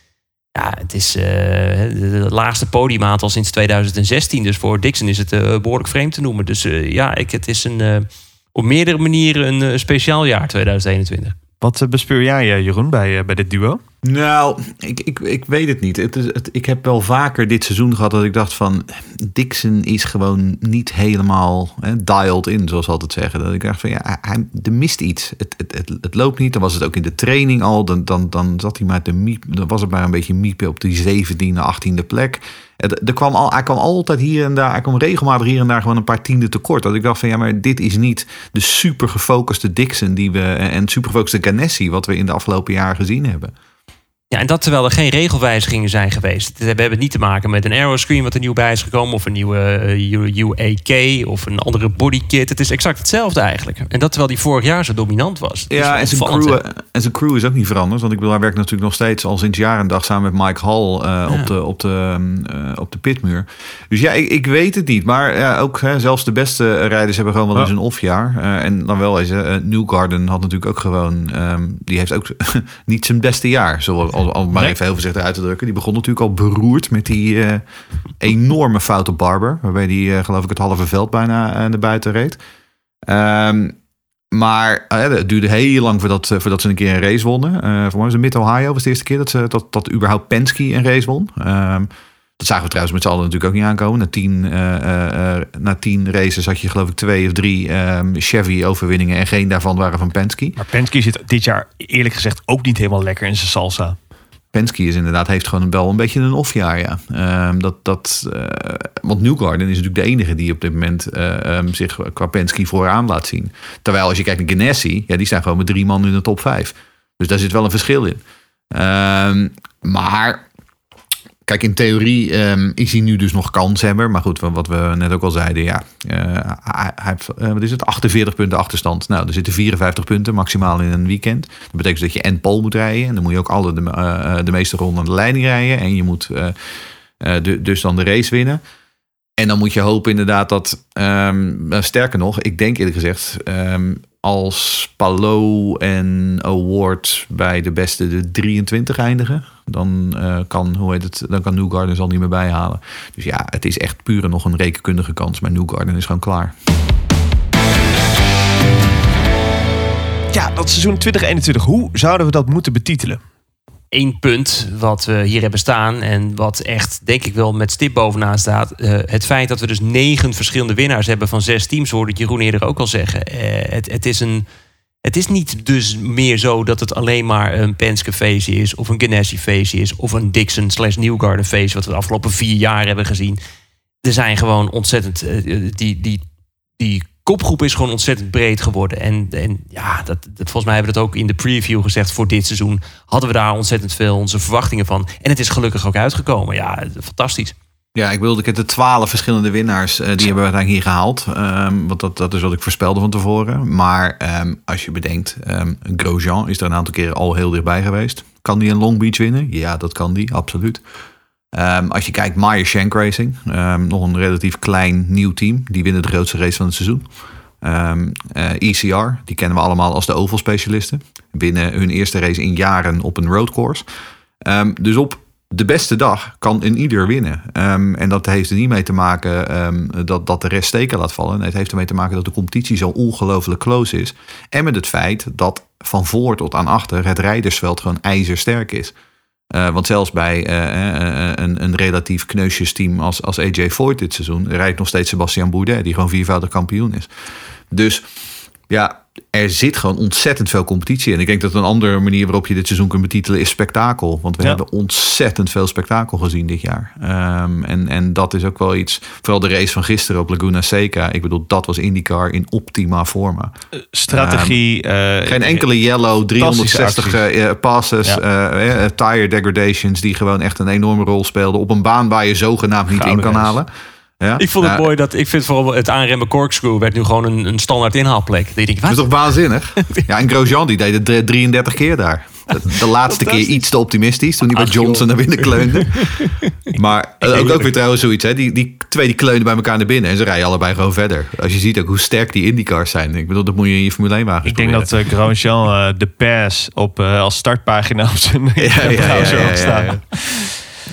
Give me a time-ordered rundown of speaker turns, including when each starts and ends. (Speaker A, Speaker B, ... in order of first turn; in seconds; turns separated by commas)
Speaker A: 0.5-11.3, Speaker B: 11.6-13.8, Speaker C: 14.0-43.5, Speaker A: 44.3-56.6, Speaker C: 55.7-77.6, Speaker C: 78.2-82.4, Speaker C: 83.1-83.7, Speaker C: 84.3-100.6, Speaker B: 100.5-104.0, Speaker C: 104.5-118.2, Speaker C: 118.7-120.5, Speaker C: 121.4-136.5, Speaker C: 137.2-138.6, Speaker C: 139.4-156.5, Speaker B: 160.3-163.2, Speaker A: 163.9-174.4, Speaker A: 175.0-183.4, Speaker A: 184.0-186.2, Speaker A: 186.8-197.6, Speaker C: 197.9-210.8, Speaker C: 211.5-217.1, Speaker C: 217.6-223.8, Speaker C: 224.4-238.9, Speaker C: 239.5-247.1, Speaker C: 247.7-248.1, Speaker C: 248.7-263.5, Speaker B: 263.8-265.7, Speaker C: 264.1-264.6, Speaker C: 265.2-273.7, Speaker B: 266.4-267.2, Speaker B: 272.9-273.6, Speaker C: 274.2-274.9, Speaker A: 274.4-280.1, Speaker C: 278.9-286.2, Speaker A: 284.5-286.3, Speaker C: 286.7-294.9, Speaker B: 294.4-300.5, Speaker C: 298.6-300.0